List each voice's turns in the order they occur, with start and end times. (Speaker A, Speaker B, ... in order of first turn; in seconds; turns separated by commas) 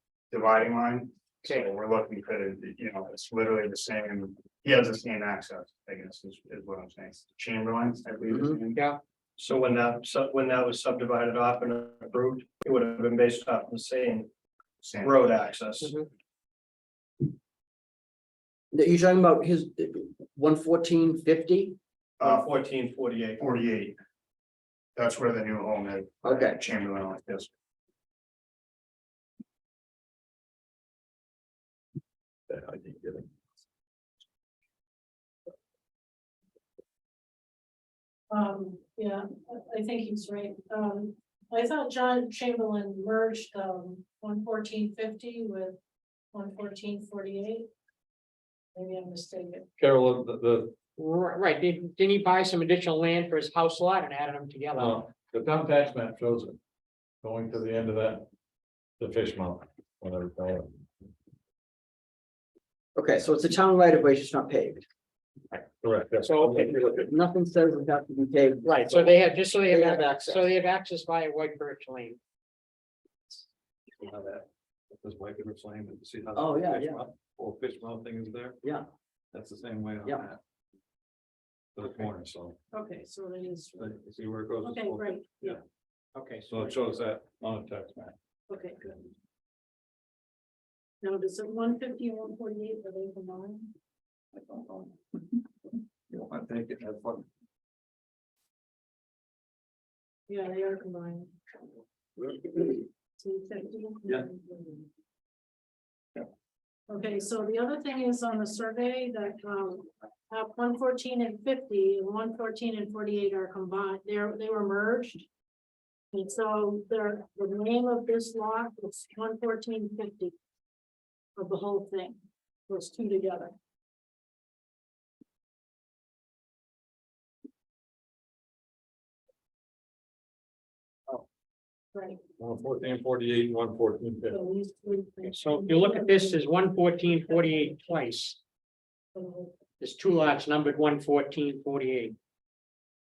Speaker A: 0.3-8.8, Speaker B: 8.3-8.6, Speaker C: 9.4-14.3, Speaker A: 14.8-15.2, Speaker C: 15.0-16.0, Speaker D: 15.8-16.1, Speaker B: 18.7-21.8, Speaker A: 22.2-22.5, Speaker C: 22.2-23.5, Speaker A: 23.4-24.0, Speaker A: 25.0-27.5, Speaker B: 26.2-26.6, Speaker E: 32.5-33.3, Speaker F: 38.3-45.8, Speaker F: 46.3-47.7, Speaker F: 48.7-49.6, Speaker E: 49.8-50.8, Speaker D: 51.0-55.0, Speaker E: 54.8-56.6, Speaker E: 57.2-58.3, Speaker E: 59.0-60.9, Speaker B: 63.0-64.8, Speaker E: 65.8-67.0, Speaker D: 66.2-66.7, Speaker B: 66.5-70.5, Speaker D: 68.6-72.2, Speaker E: 74.0-78.6, Speaker B: 76.3-77.1, Speaker E: 79.3-80.4, Speaker E: 81.8-82.6, Speaker F: 82.7-83.8, Speaker E: 83.8-85.6, Speaker F: 84.6-85.6, Speaker D: 86.2-86.8, Speaker E: 86.5-88.2, Speaker F: 88.5-88.8, Speaker F: 91.0-93.7, Speaker E: 94.4-94.9, Speaker E: 96.1-97.3, Speaker F: 100.3-101.3, Speaker F: 103.2-104.9, Speaker F: 106.9-115.3, Speaker F: 116.1-120.3, Speaker F: 121.4-123.5, Speaker F: 131.9-132.2, Speaker E: 132.4-134.4, Speaker F: 134.3-136.5, Speaker D: 135.2-138.4, Speaker F: 137.1-138.0, Speaker F: 139.2-139.5, Speaker D: 139.8-142.2